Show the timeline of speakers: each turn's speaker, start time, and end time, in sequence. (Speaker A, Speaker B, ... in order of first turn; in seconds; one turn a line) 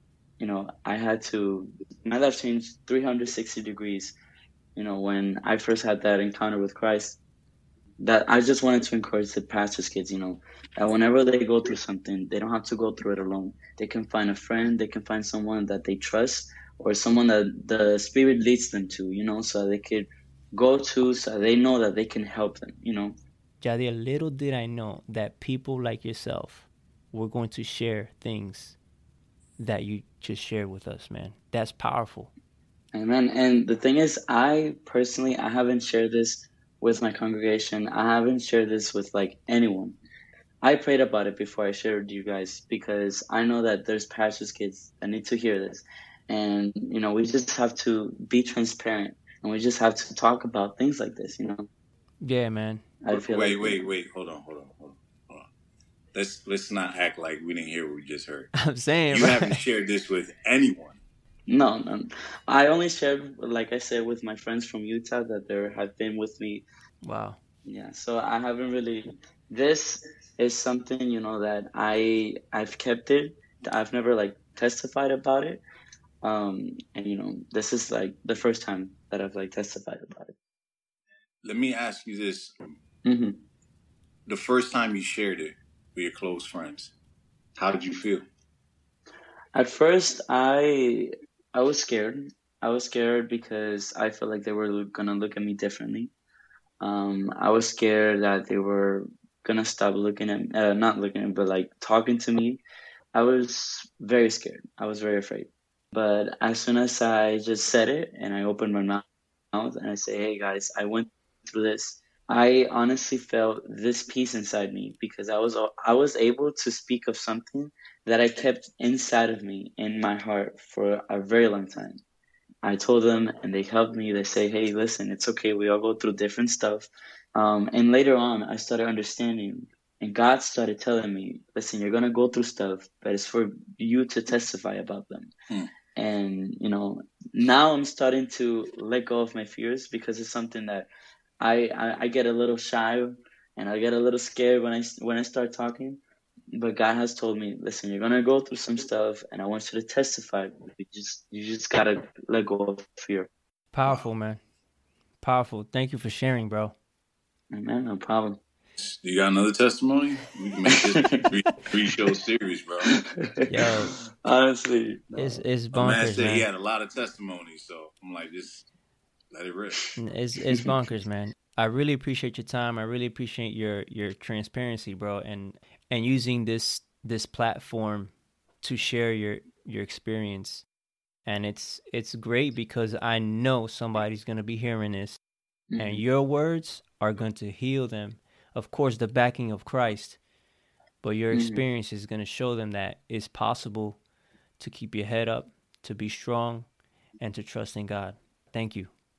Speaker A: 0.4-4.1
Speaker A: 4.8-7.2
Speaker A: 8.0-23.1
Speaker B: 23.6-28.8
Speaker B: 29.6-32.3
Speaker A: 32.9-40.0
Speaker A: 40.6-51.7
Speaker B: 52.2-52.8
Speaker A: 53.0-53.8
Speaker C: 53.1-55.5
Speaker C: 56.1-58.5
Speaker B: 58.5-59.6
Speaker C: 59.1-61.0
Speaker A: 61.5-66.6
Speaker B: 67.0-67.4
Speaker A: 67.6-75.6
Speaker A: 76.2-80.3
Speaker C: 81.4-82.8
Speaker A: 83.0-83.4
Speaker C: 84.2-86.9
Speaker C: 87.5-88.2
Speaker A: 89.5-96.1
Speaker A: 96.8-102.6
Speaker A: 103.1-122.0
Speaker A: 122.6-135.3
Speaker A: 135.9-140.9
Speaker A: 141.4-146.0
Speaker A: 146.5-153.3
Speaker B: 153.7-154.4
Speaker C: 153.8-154.1
Speaker B: 155.2-156.7
Speaker A: 157.5-158.4
Speaker C: 158.8-163.0
Speaker A: 160.7-161.3
Speaker B: 163.5-163.9
Speaker A: 164.2-165.4
Speaker B: 165.2-166.5
Speaker C: 165.7-168.7
Speaker C: 169.3-169.8
Speaker B: 170.0-180.7
Speaker B: 181.2-185.2
Speaker A: 185.7-186.0
Speaker B: 185.8-190.2
Speaker B: 191.0-194.0
Speaker A: 191.3-191.6
Speaker B: 194.6-196.7
Speaker B: 197.2-198.9